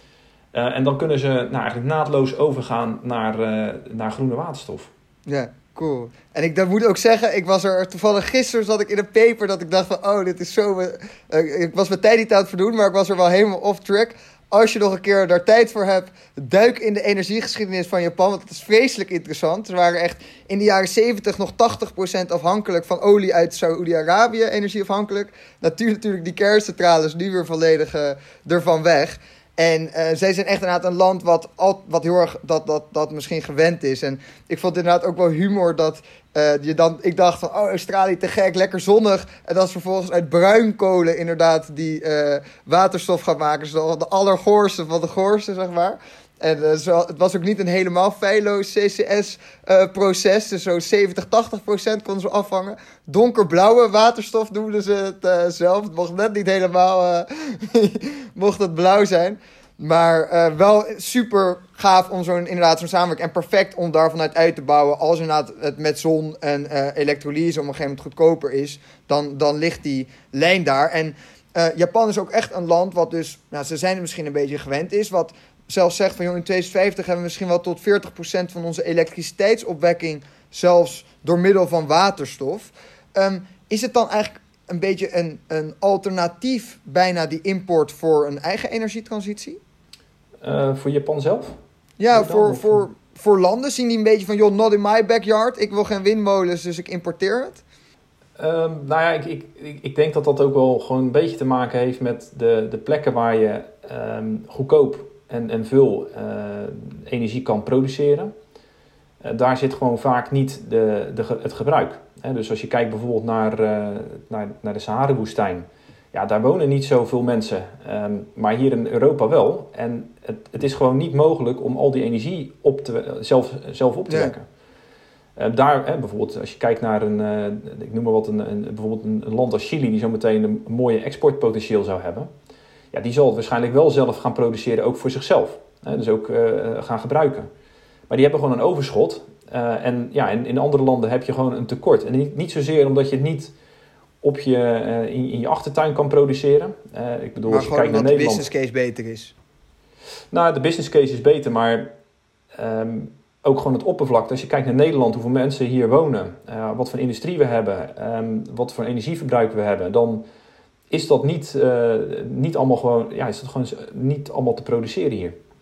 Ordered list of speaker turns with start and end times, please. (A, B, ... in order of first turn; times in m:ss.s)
0:00.5-0:04.9 A
0:05.3-1:29.6 B
1:30.4-1:31.6 A
1:32.0-1:37.6 B
1:32.1-1:32.8 A
1:38.4-1:48.3 A
1:49.2-2:04.5 A
2:05.4-2:12.3 A
2:12.9-2:17.5 A
2:18.1-2:23.5 A
2:24.2-2:28.5 A
2:27.5-2:29.3 B
2:30.3-2:31.9 A
2:32.5-2:40.3 A
2:40.9-2:45.4 A